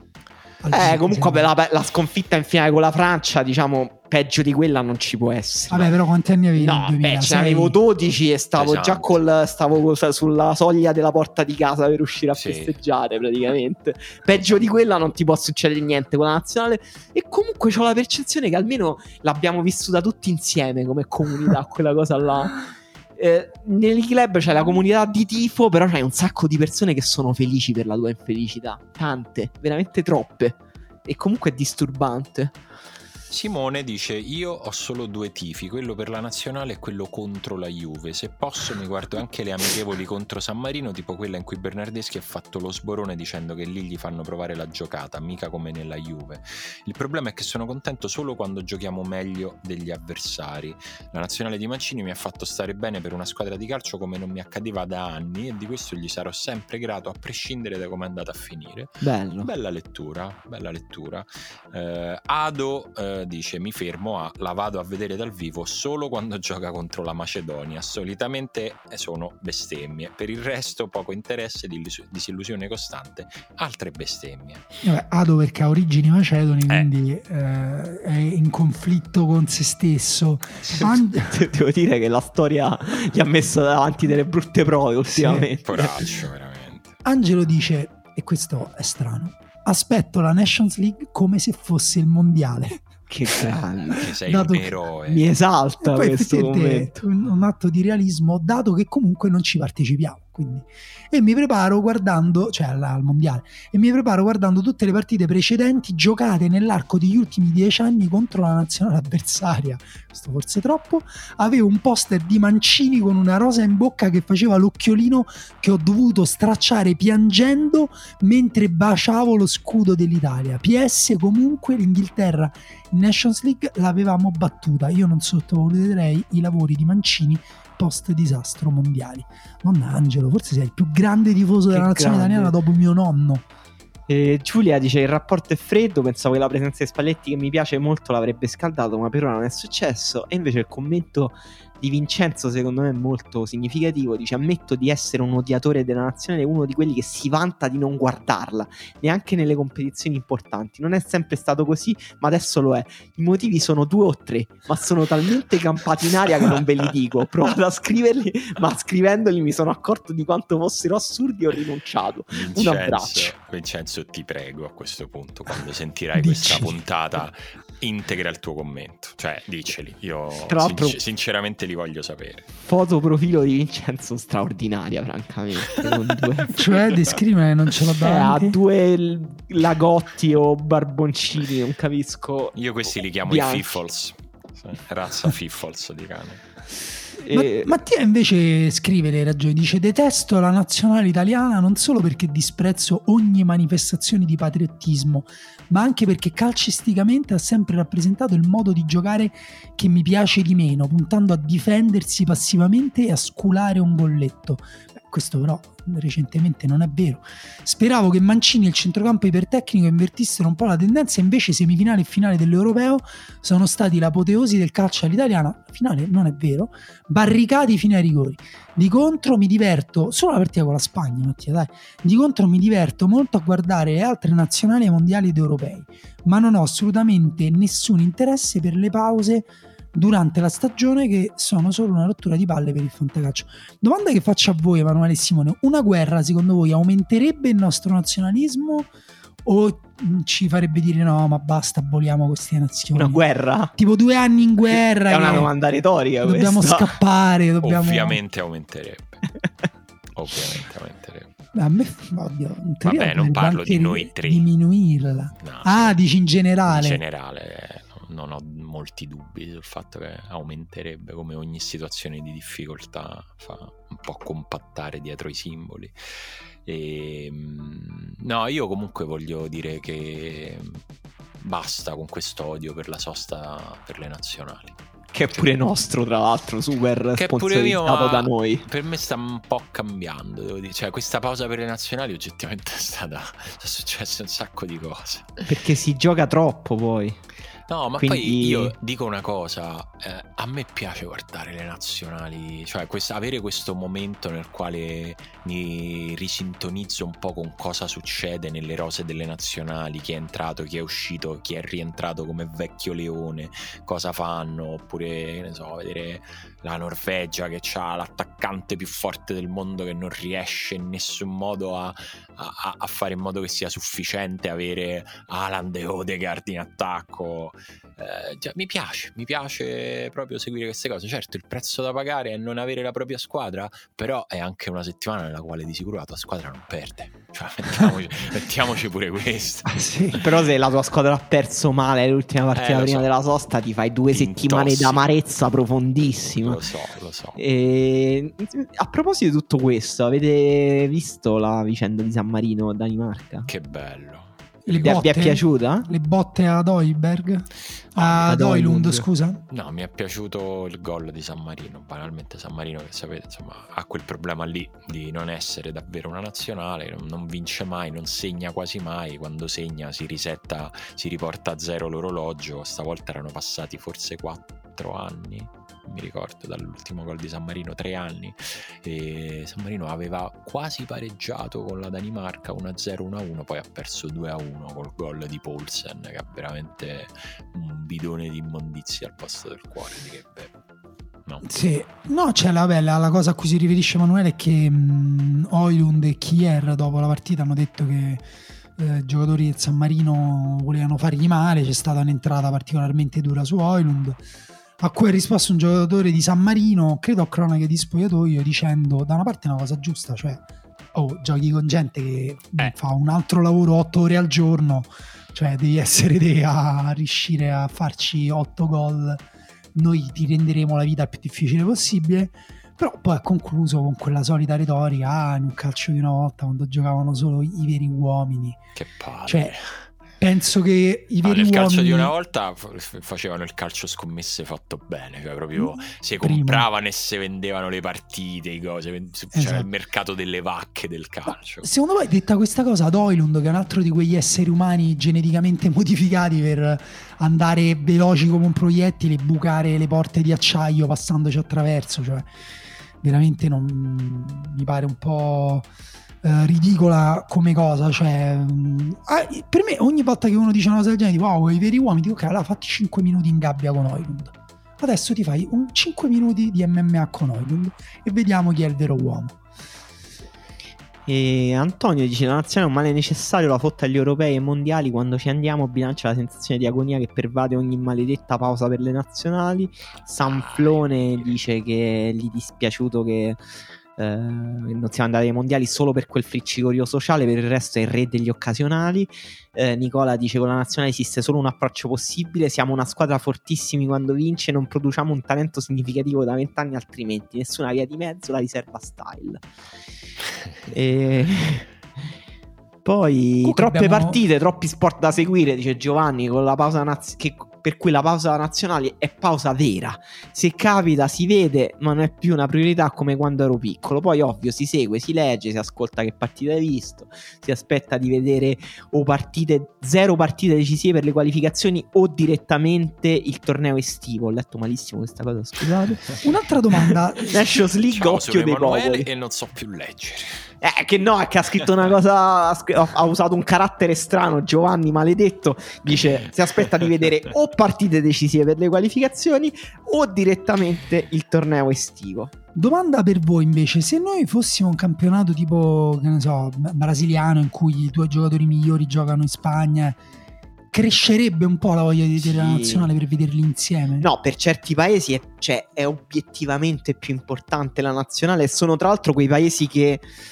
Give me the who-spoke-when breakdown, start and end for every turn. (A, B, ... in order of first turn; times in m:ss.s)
0:00.6-0:01.5 A
0:00.7-0:05.9 B
0:05.7-0:07.8 A
0:06.6-0:22.6 B
0:08.6-0:09.2 C
0:12.3-0:12.8 C
0:23.2-0:32.6 B
0:33.3-1:14.6 C
0:59.0-0:59.5 B
1:14.8-1:21.4 A
1:20.7-1:26.1 B
1:25.1-1:25.5 A
1:25.6-1:27.0 C
1:27.0-1:32.8 A
1:33.1-1:34.1 B
1:33.8-1:35.3 C
1:34.2-1:34.7 A
1:35.1-1:37.0 B
1:35.8-2:13.4 A
2:11.7-2:12.5 B
2:14.1-2:43.3 B
2:42.3-2:52.5 C
2:46.1-2:46.8 A
2:50.5-2:51.0 B
2:52.6-2:56.6 B
2:56.5-2:58.6 A
2:56.5-2:57.1 C
2:58.0-3:02.6 B
3:02.5-3:06.4 C
3:03.2-3:03.8 B
3:07.2-3:07.7 B
3:07.3-3:58.9 A
3:59.4-4:03.2 A
4:02.9-4:03.7 B
4:03.7-4:05.5 A
4:04.7-4:06.9 B
4:06.2-4:08.2 A
4:07.6-4:09.3 C
4:10.1-4:11.3 C
4:11.5-4:17.0 A
4:12.8-4:14.5 C
4:15.4-4:16.0 C
4:16.6-4:30.8 C
4:31.4-4:35.5 C
4:35.1-4:38.7 B
4:37.2-4:45.5 C
4:45.5-4:47.2 B
4:47.7-5:30.2 C
4:48.0-4:48.7 B
5:29.6-5:30.2 A
5:30.2-5:36.6 B
5:32.6-5:33.1 C
5:34.1-5:35.0 C
5:36.4-5:37.4 C
5:37.4-5:43.5 B
5:43.4-5:45.3 C
5:44.7-5:49.4 A
5:44.8-5:45.9 B
5:48.0-5:48.3 C
5:48.2-5:49.0 B
5:49.5-6:20.5 C
6:21.2-6:21.5 C
6:21.4-6:34.2 A
6:34.8-6:58.6 A
6:58.7-6:59.9 C
6:59.3-6:59.5 A
7:00.2-7:02.1 A
7:01.2-7:11.7 C
7:05.5-7:06.7 A
7:09.3-7:09.7 A
7:11.6-7:22.3 A
7:23.0-7:25.7 A
7:26.2-7:39.4 A
7:41.0-7:53.4 B
7:50.1-7:51.4 C
7:54.0-8:09.4 B
8:10.6-8:11.7 B
8:12.8-8:36.2 B
8:13.4-8:14.2 A
8:35.6-8:37.5 A
8:37.1-8:39.1 B
8:37.8-8:40.5 C
8:40.6-8:52.3 B
8:52.5-9:00.0 A
9:00.7-9:04.1 A
9:02.2-9:02.9 B
9:04.0-9:10.1 B